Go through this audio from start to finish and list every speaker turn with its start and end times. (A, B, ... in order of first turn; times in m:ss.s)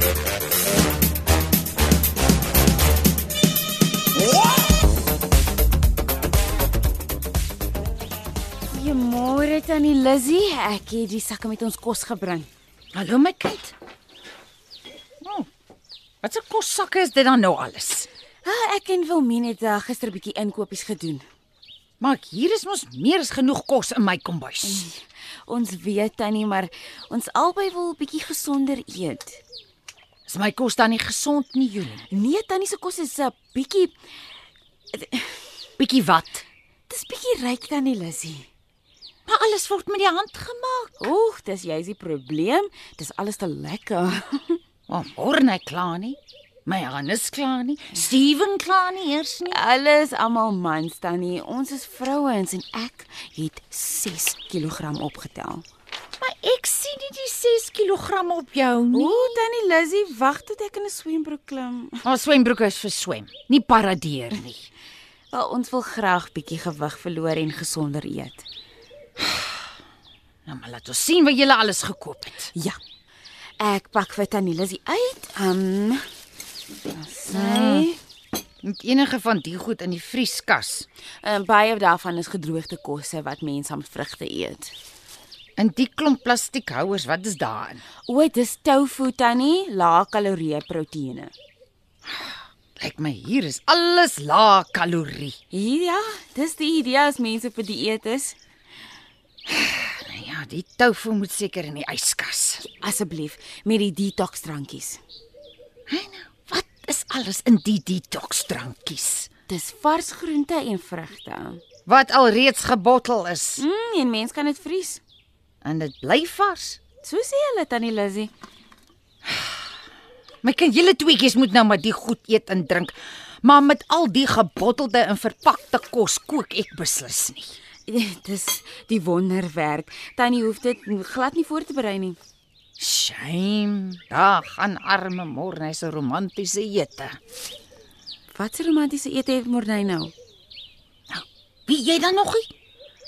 0:08.7-0:12.5 A
0:12.9-0:13.7 B
0:15.2-0:15.5 B
0:16.2-0:18.1 B
0:18.4-0:21.2 A
0:22.0-0:24.9 B
0:24.6-0:29.4 A
0:30.3-0:32.0 B
0:32.1-0:33.9 A
0:34.9-0:35.4 A
0:35.8-0:36.4 B
0:36.9-0:38.5 A
0:39.3-0:41.1 B
0:41.0-0:44.6 A
0:44.9-0:49.6 B
0:49.5-0:55.6 A
0:56.2-0:59.3 B
0:58.9-1:02.0 A
1:02.0-1:04.7 B
1:05.3-1:08.4 A
1:10.4-1:12.5 B
1:12.5-1:12.8 A
1:13.6-1:16.0 A
1:16.9-1:18.0 A
1:17.3-1:17.9 B
1:18.6-1:20.9 B
1:21.2-1:24.7 A
1:25.6-1:27.8 B
1:28.0-1:31.3 A
1:32.8-1:35.4 B
1:35.5-1:38.4 A
1:39.5-1:42.6 B
1:42.6-1:45.0 A
1:45.9-1:49.3 B
1:49.5-1:51.6 A
1:51.9-1:53.6 B
1:53.6-1:55.0 A
1:55.6-1:56.8 B
1:57.0-1:58.3 A
2:00.4-2:07.6 B
2:07.9-2:12.2 A
2:12.8-2:17.2 B
2:18.3-2:20.1 A
2:21.1-2:22.5 B